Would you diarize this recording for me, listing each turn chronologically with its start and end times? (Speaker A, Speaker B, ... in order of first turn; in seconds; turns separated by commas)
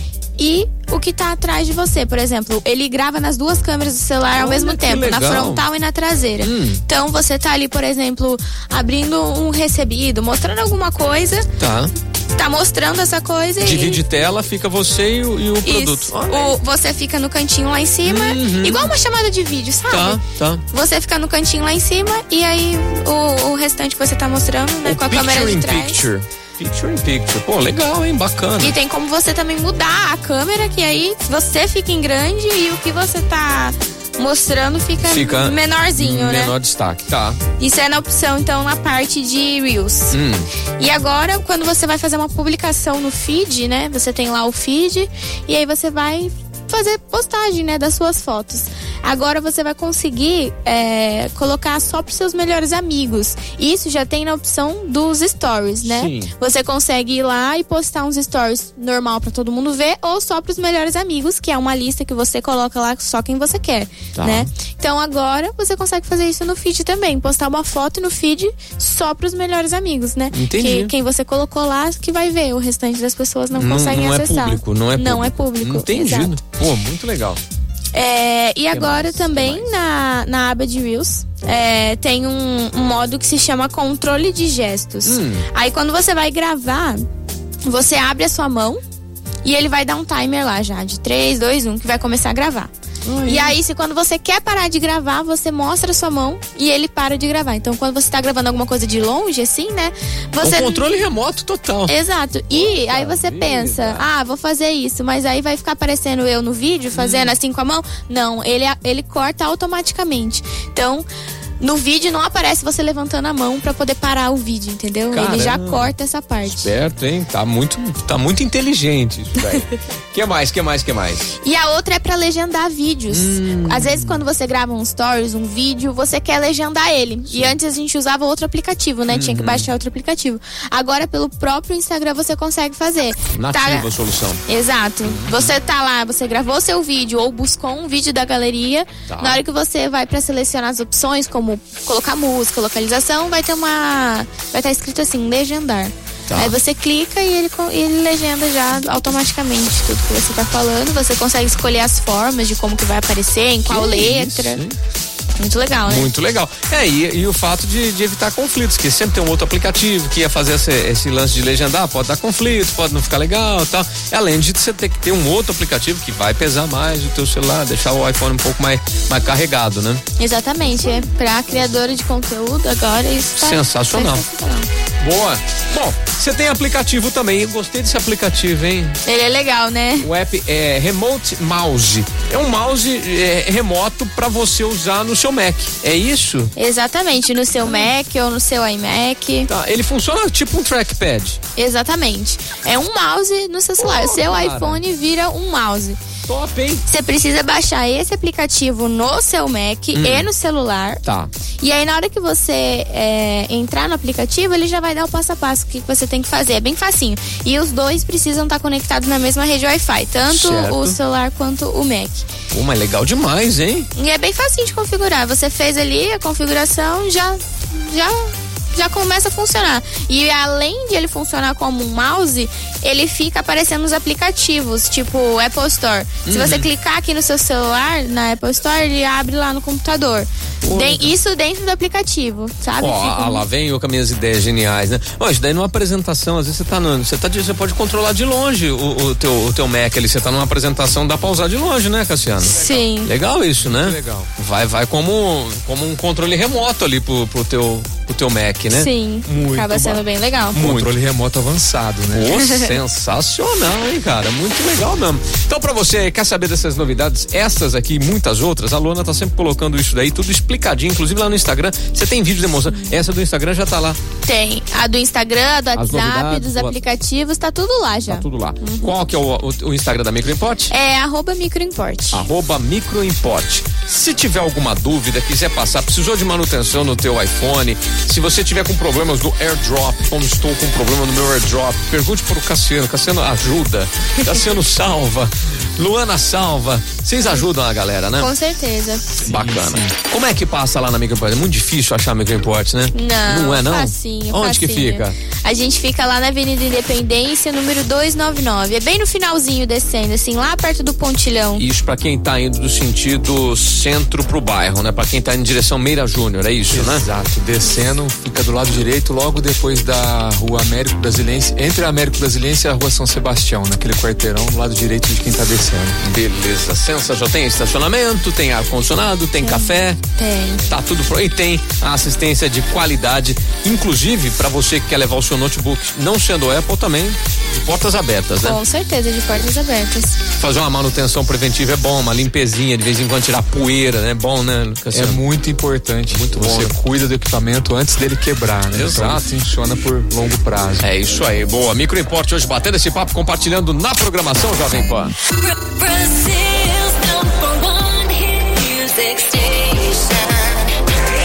Speaker A: 0.4-11.5, Speaker B: 4.3-5.7, Speaker B: 6.4-6.8, Speaker B: 11.6-11.9, Speaker A: 12.3-14.0, Speaker B: 13.6-16.6, Speaker A: 15.6-26.0, Speaker B: 18.1-18.9, Speaker B: 19.9-20.6, Speaker B: 24.8-28.8, Speaker A: 28.6-36.6, Speaker B: 35.0-37.4, Speaker A: 37.6-40.2, Speaker B: 40.1-40.5, Speaker A: 40.8-76.4, Speaker B: 55.9-56.3, Speaker B: 64.2-64.5, Speaker B: 70.3-70.9, Speaker B: 73.5-77.4, Speaker A: 77.9-87.1, Speaker B: 78.7-79.7, Speaker B: 85.1-85.5, Speaker A: 87.7-88.8, Speaker A: 89.4-92.7, Speaker B: 93.0-93.6, Speaker A: 93.2-100.9, Speaker B: 100.4-101.9, Speaker A: 101.9-111.1, Speaker B: 102.5-104.0, Speaker B: 106.9-107.3, Speaker A: 111.6-116.7, Speaker B: 115.1-115.9, Speaker B: 116.5-121.3, Speaker A: 121.4-133.9, Speaker B: 123.1-124.2, Speaker B: 127.3-127.6, Speaker B: 129.1-129.7, Speaker B: 133.3-134.4, Speaker A: 134.4-154.6, Speaker B: 135.0-135.6, Speaker B: 139.1-139.4, Speaker B: 146.3-146.6, Speaker B: 153.7-154.8, Speaker A: 155.4-156.1, Speaker B: 155.9-170.0, Speaker A: 170.2-174.7, Speaker B: 173.3-174.2, Speaker B: 175.0-179.0, Speaker A: 179.1-180.1, Speaker B: 180.0-186.5, Speaker A: 186.6-189.5, Speaker B: 189.5-191.4, Speaker A: 191.6-196.0, Speaker B: 193.8-194.8, Speaker B: 196.3-196.8, Speaker A: 196.9-201.0, Speaker B: 199.9-200.3, Speaker B: 201.1-201.3, Speaker A: 201.6-212.3, Speaker B: 210.3-211.0, Speaker B: 212.5-213.9, Speaker A: 213.9-233.5, Speaker B: 226.3-226.7, Speaker B: 230.6-231.1, Speaker B: 232.8-250.9, Speaker A: 242.5-243.1, Speaker C: 243.6-244.3, Speaker A: 248.7-250.7, Speaker C: 250.6-252.3, Speaker B: 252.1-264.0, Speaker A: 252.3-252.7, Speaker A: 262.7-263.0, Speaker A: 264.2-268.9, Speaker B: 265.8-266.8, Speaker B: 268.1-270.7, Speaker A: 270.7-272.3, Speaker B: 272.1-288.3, Speaker A: 288.2-289.2, Speaker B: 289.2-295.2, Speaker C: 289.3-289.9, Speaker A: 292.9-301.6, Speaker B: 301.6-307.1, Speaker C: 306.7-316.0, Speaker B: 316.0-320.0, Speaker A: 319.4-320.7, Speaker B: 320.7-328.6, Speaker A: 328.4-330.2, Speaker B: 330.4-335.2, Speaker C: 334.9-340.9, Speaker B: 336.1-336.8, Speaker B: 338.7-339.3, Speaker B: 340.8-345.1, Speaker D: 345.4-350.5